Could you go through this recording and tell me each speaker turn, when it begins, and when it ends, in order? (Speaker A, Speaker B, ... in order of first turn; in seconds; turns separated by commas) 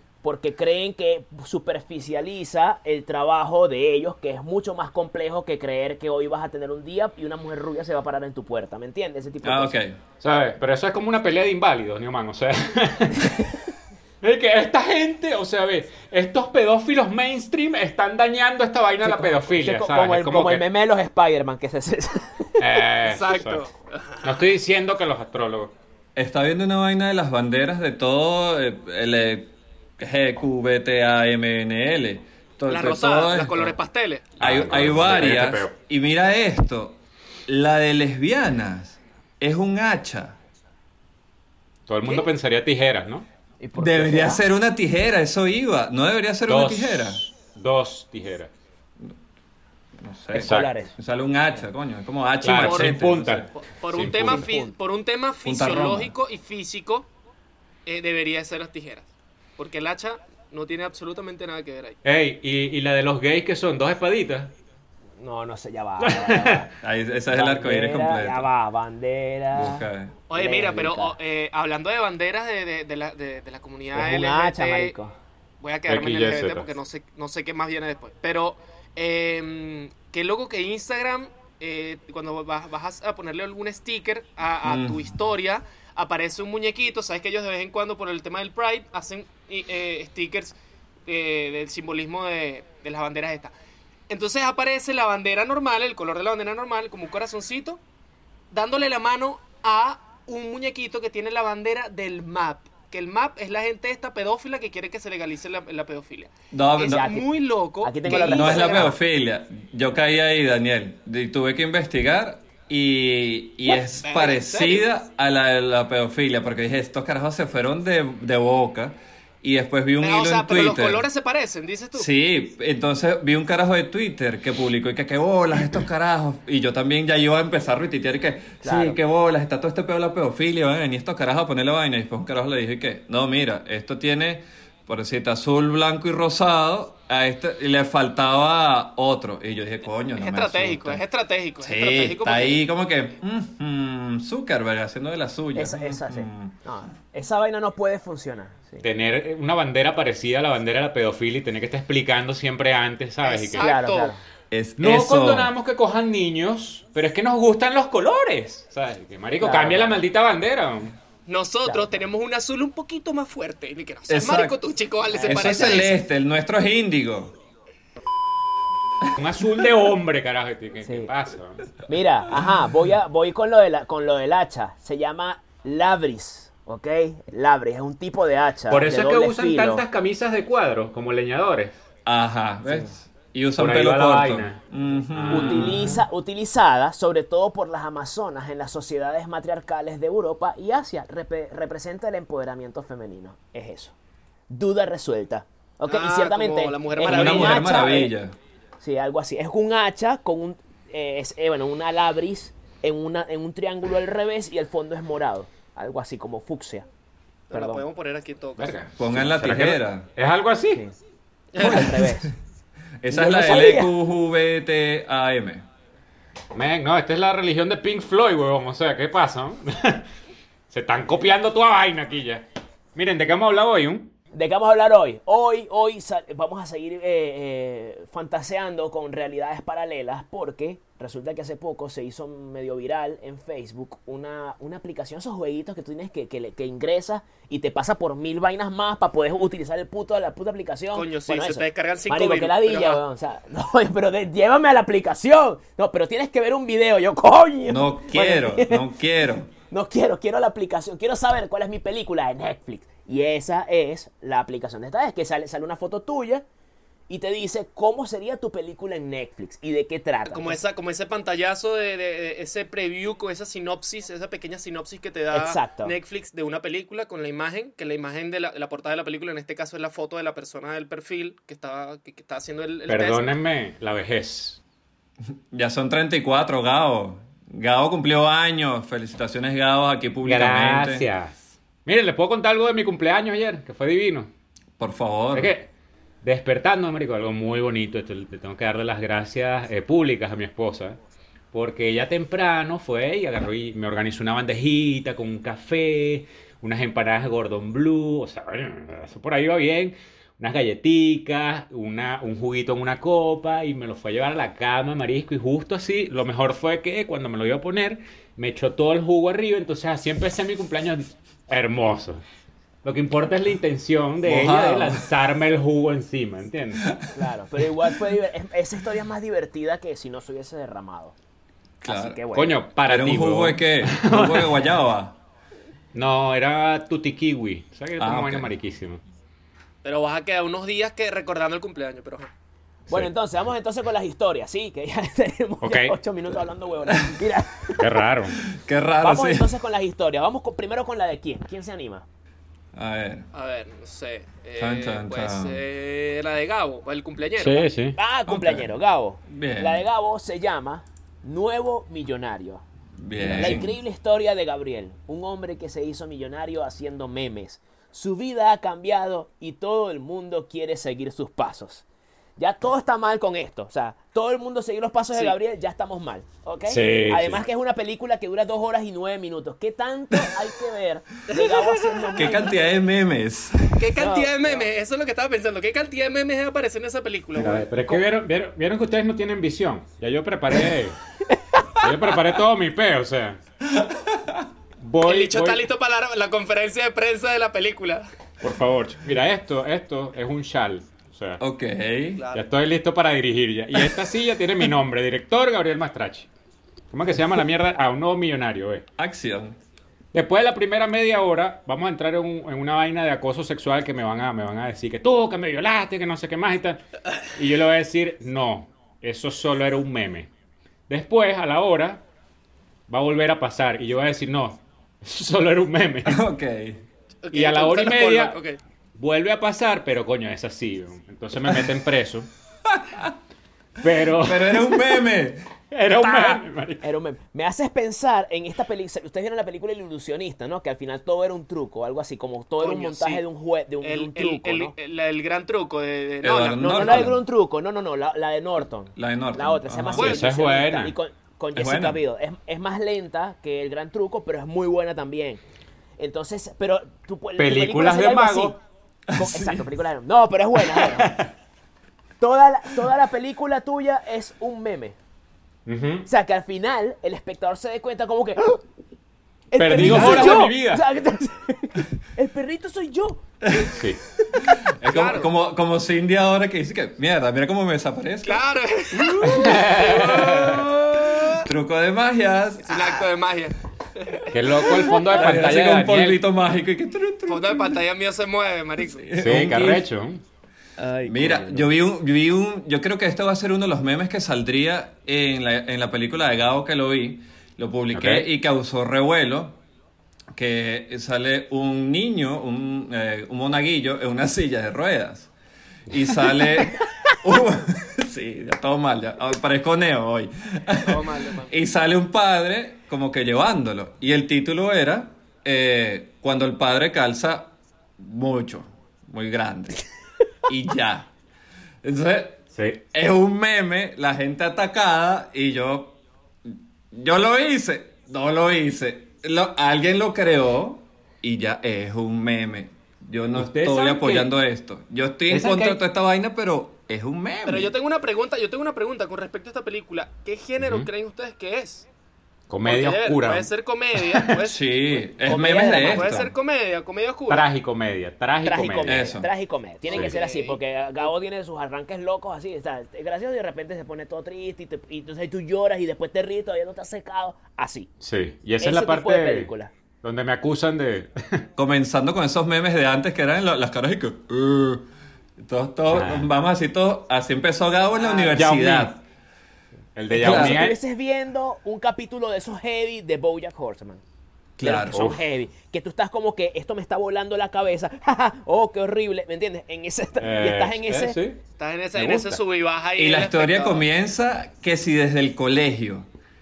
Speaker A: 0.2-9.7, Speaker B: 9.4-10.0, Speaker C: 10.2-13.5, Speaker C: 14.2-20.6, Speaker A: 19.0-22.7, Speaker C: 22.6-23.6, Speaker D: 23.0-24.4, Speaker C: 24.2-25.7, Speaker B: 26.1-33.8, Speaker D: 32.7-34.3, Speaker C: 34.4-35.7, Speaker B: 34.4-40.4, Speaker C: 41.9-43.3, Speaker A: 43.6-44.4, Speaker B: 43.8-47.2, Speaker C: 46.5-48.5, Speaker B: 50.0-53.5, Speaker A: 50.3-50.9, Speaker C: 50.4-50.7, Speaker C: 52.4-54.4, Speaker D: 52.6-53.0, Speaker D: 53.6-57.1, Speaker A: 54.2-54.7, Speaker B: 55.4-56.1, Speaker D: 57.9-62.0, Speaker C: 62.0-64.5, Speaker A: 65.2-66.7, Speaker C: 66.0-66.7, Speaker B: 66.8-68.5, Speaker A: 67.3-71.2, Speaker B: 69.5-70.1, Speaker D: 70.3-74.9, Speaker A: 73.9-75.1, Speaker D: 75.6-93.5, Speaker C: 75.9-76.7, Speaker B: 84.6-85.1, Speaker D: 94.1-97.8, Speaker D: 98.5-108.9, Speaker B: 106.5-107.1, Speaker A: 106.8-108.9, Speaker B: 108.1-121.0, Speaker D: 113.7-114.9, Speaker D: 120.0-122.1, Speaker B: 121.9-141.0, Speaker A: 128.6-129.0, Speaker D: 140.1-142.6, Speaker B: 141.6-146.6, Speaker A: 145.5-148.8, Speaker C: 148.8-153.7, Speaker D: 153.2-154.1, Speaker A: 153.6-154.2, Speaker B: 154.5-155.5, Speaker C: 154.8-160.9, Speaker A: 159.4-160.0, Speaker D: 161.2-166.0, Speaker A: 161.7-161.9, Speaker B: 164.1-164.6, Speaker A: 165.1-165.7, Speaker B: 165.2-167.3, Speaker C: 169.2-171.7, Speaker A: 170.8-171.1, Speaker A: 171.8-179.8, Speaker C: 178.7-181.8, Speaker B: 182.1-186.0, Speaker A: 182.6-182.9, Speaker C: 183.6-186.0, Speaker A: 185.3-193.9, Speaker A: 194.5-198.1, Speaker D: 195.8-198.0, Speaker B: 197.0-198.3, Speaker A: 198.8-206.9, Speaker D: 207.5-208.8, Speaker A: 207.5-207.8, Speaker C: 208.6-210.8, Speaker B: 209.0-210.1, Speaker D: 211.5-212.0, Speaker A: 211.6-212.3, Speaker B: 211.6-212.3, Speaker B: 213.0-215.6, Speaker A: 213.1-213.9, Speaker C: 216.5-220.1, Speaker C: 220.7-224.1, Speaker A: 224.3-248.9, Speaker D: 240.9-243.0, Speaker B: 247.7-249.5, Speaker A: 249.7-256.4, Speaker A: 257.1-260.6, Speaker D: 260.3-273.3, Speaker A: 265.3-265.9, Speaker C: 272.9-274.6, Speaker B: 275.5-281.1, Speaker C: 280.2-284.3, Speaker B: 284.8-285.5, Speaker C: 285.3-285.7, Speaker C: 286.2-291.0, Speaker C: 291.5-312.2, Speaker C: 312.8-316.9, Speaker B: 314.2-315.0, Speaker A: 317.1-321.1, Speaker B: 321.8-322.2, Speaker A: 321.8-322.6, Speaker C: 322.3-324.7, Speaker B: 322.8-325.1, Speaker C: 325.9-329.0, Speaker B: 328.0-328.5, Speaker D: 329.8-332.3, Speaker A: 332.9-338.0, Speaker C: 335.6-335.9, Speaker C: 337.8-338.4, Speaker B: 338.5-339.5, Speaker A: 339.0-342.1, Speaker B: 342.7-343.3, Speaker D: 343.3-347.7, Speaker B: 344.6-345.6, Speaker C: 347.4-348.0, Speaker A: 347.9-352.6, Speaker B: 348.3-348.7, Speaker B: 349.2-349.8, Speaker B: 353.0-353.8, Speaker C: 353.2-353.6, Speaker A: 353.3-361.8, Speaker A: 362.4-372.7, Speaker C: 366.6-367.4, Speaker D: 371.3-372.1, Speaker B: 372.1-373.8, Speaker D: 373.8-378.0, Speaker A: 374.0-374.7, Speaker C: 377.3-381.0, Speaker C: 381.8-383.4, Speaker B: 383.7-384.4, Speaker C: 384.8-385.6, Speaker D: 385.0-388.1, Speaker C: 388.4-391.4, Speaker B: 391.4-392.2, Speaker D: 392.2-392.4, Speaker C: 392.3-396.3, Speaker C: 396.9-398.8, Speaker B: 399.0-399.6, Speaker C: 400.1-410.3, Speaker C: 410.9-412.0, Speaker C: 412.9-416.2, Speaker B: 416.0-416.8, Speaker D: 417.2-418.6, Speaker C: 417.3-418.4, Speaker C: 418.9-422.3, Speaker B: 422.7-423.1, Speaker C: 423.8-424.9, Speaker B: 424.1-425.4, Speaker C: 425.7-426.9, Speaker B: 426.0-426.4, Speaker A: 426.8-434.7, Speaker D: 432.6-433.2, Speaker D: 433.8-437.1, Speaker B: 436.2-437.2, Speaker A: 436.6-445.4, Speaker B: 438.9-440.2, Speaker D: 439.9-440.3, Speaker C: 439.9-440.9, Speaker B: 441.5-442.0, Speaker A: 446.0-448.6, Speaker C: 447.4-448.6, Speaker B: 449.1-449.6, Speaker A: 449.1-451.1, Speaker C: 450.7-451.3, Speaker A: 452.2-455.0, Speaker C: 455.6-456.1, Speaker A: 456.1-458.6, Speaker A: 459.5-463.2, Speaker C: 459.6-460.8, Speaker B: 459.8-460.3, Speaker B: 463.4-463.8, Speaker C: 463.7-464.0, Speaker B: 464.4-473.0, Speaker D: 464.8-465.3, Speaker D: 468.2-471.3, Speaker C: 469.2-470.6, Speaker D: 472.6-475.2, Speaker C: 474.3-476.2, Speaker B: 475.1-477.8, Speaker D: 477.3-479.1, Speaker B: 478.8-479.9, Speaker C: 479.2-480.2, Speaker A: 480.8-481.7, Speaker B: 481.1-489.6, Speaker C: 487.9-488.3, Speaker B: 490.3-495.3, Speaker B: 495.9-509.8, Speaker D: 500.8-501.5, Speaker B: 510.4-511.1, Speaker B: 511.8-512.4, Speaker C: 512.5-512.8, Speaker B: 512.9-527.7, Speaker C: 523.4-524.3, Speaker C: 525.3-525.8, Speaker D: 527.4-531.9, Speaker C: 530.6-530.9, Speaker C: 532.5-534.4, Speaker D: 532.6-535.1, Speaker B: 534.4-536.3, Speaker A: 535.2-536.2, Speaker D: 535.7-537.5, Speaker C: 537.3-539.1, Speaker A: 538.4-547.9, Speaker B: 538.8-539.3, Speaker D: 539.9-540.6, Speaker C: 548.0-549.5, Speaker A: 548.6-549.7, Speaker C: 550.0-551.5, Speaker B: 551.6-554.8, Speaker B: 555.4-559.0, Speaker C: 555.9-556.3, Speaker A: 558.0-558.4, Speaker C: 558.3-558.9, Speaker C: 559.9-560.8, Speaker A: 560.1-564.0, Speaker B: 560.1-560.7, Speaker B: 564.6-565.0, Speaker A: 564.6-571.2, Speaker C: 564.9-565.2, Speaker C: 570.2-571.4, Speaker D: 571.6-573.8, Speaker C: 571.9-572.4, Speaker B: 573.0-576.1